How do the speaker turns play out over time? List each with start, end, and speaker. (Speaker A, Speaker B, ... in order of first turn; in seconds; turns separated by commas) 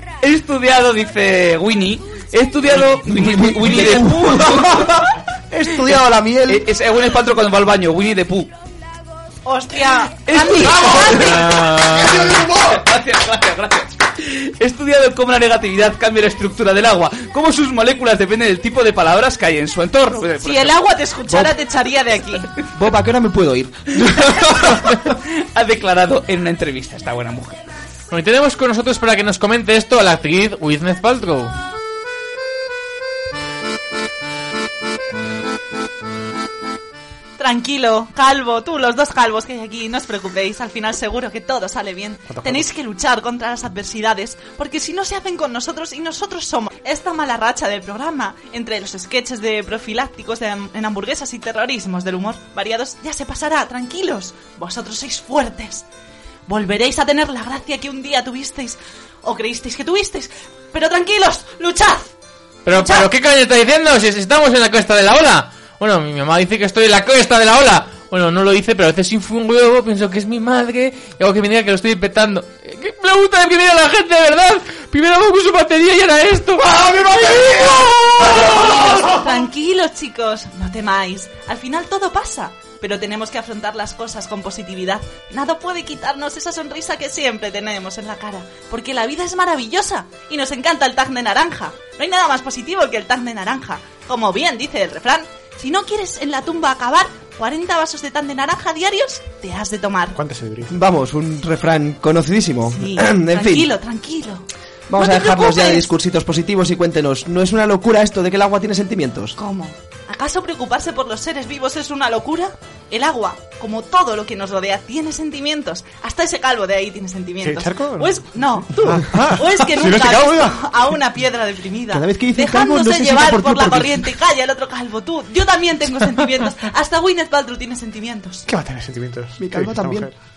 Speaker A: 0.2-5.1, Speaker B: 3.0-6.7, Speaker A: 6.5-8.5, Speaker C: 9.4-11.4, Speaker A: 10.2-20.8, Speaker D: 11.1-12.4, Speaker C: 20.4-22.5, Speaker B: 22.7-24.9, Speaker A: 24.0-27.6, Speaker D: 28.1-31.5, Speaker C: 37.4-55.9, Speaker E: 42.3-42.7, Speaker C: 56.5-62.1, Speaker D: 62.6-78.4, Speaker C: 62.7-63.1, Speaker E: 76.6-79.2, Speaker C: 78.3-100.2, Speaker E: 100.1-100.7, Speaker B: 100.7-103.7, Speaker C: 102.7-104.4, Speaker B: 104.9-109.3, Speaker C: 105.0-105.9, Speaker C: 109.4-128.4, Speaker E: 117.4-120.6, Speaker B: 121.9-124.1, Speaker E: 128.5-130.1, Speaker B: 129.4-130.1